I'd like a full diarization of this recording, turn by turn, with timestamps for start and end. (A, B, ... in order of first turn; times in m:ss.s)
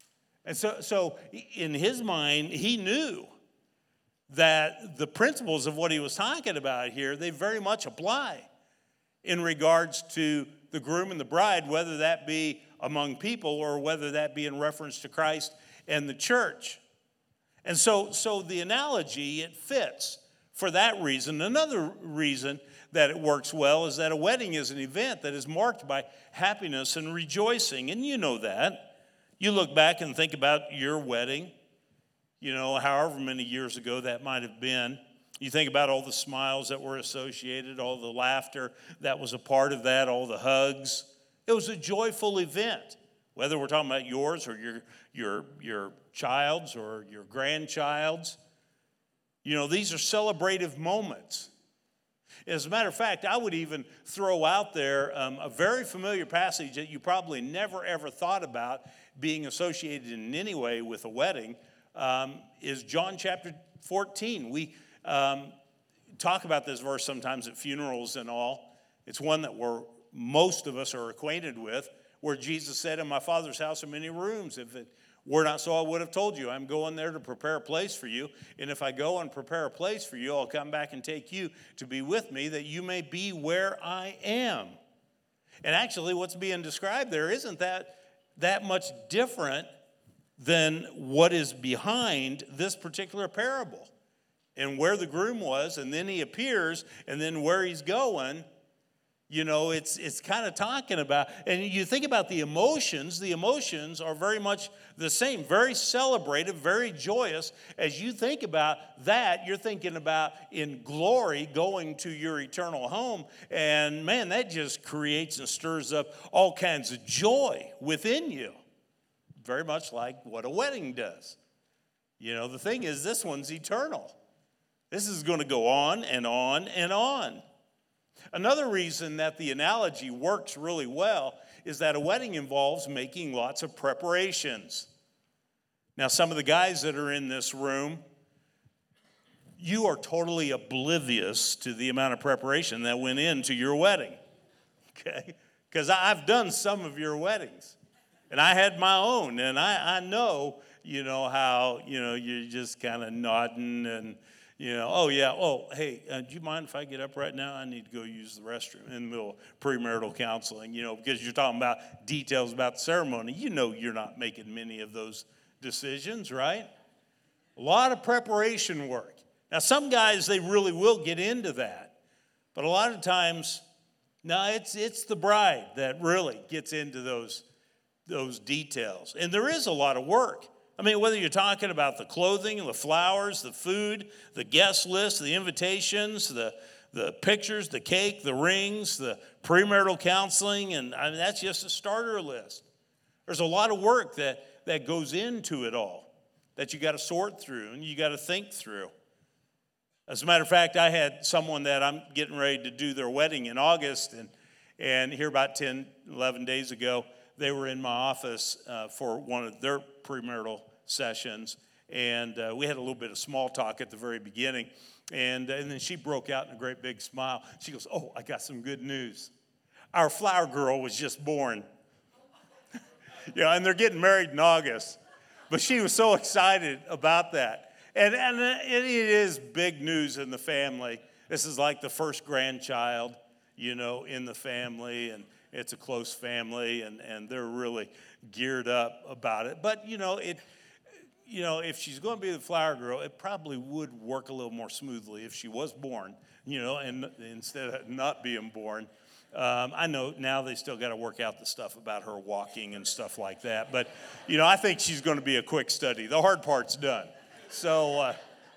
0:00.4-0:03.3 A
0:04.3-0:08.5 A
0:09.2-0:16.8 A
0:17.6-0:31.5 A
0:32.4-0:48.4 A
0:49.4-0:51.5 A
0:52.4-1:05.5 A
1:06.2-1:24.8 A
1:25.6-1:29.7 A
1:30.4-1:33.9 A
1:34.6-1:38.4 A
1:39.3-1:58.6 A
1:59.4-2:01.4 A
2:02.2-2:04.2 A
2:04.9-2:07.4 A
2:08.3-2:14.9 A
2:16.0-2:18.0 A
2:19.6-2:24.2 A
2:24.9-2:27.8 A
2:28.3-2:46.7 A
2:47.6-2:51.9 A
2:52.5-2:53.6 A
2:54.2-2:57.4 A
2:58.1-3:12.6 A
3:13.3-3:18.9 A
3:20.1-3:39.3 A
3:39.9-3:41.6 A
3:43.3-3:45.0 A
3:45.5-4:00.4 A
4:01.2-4:18.2 A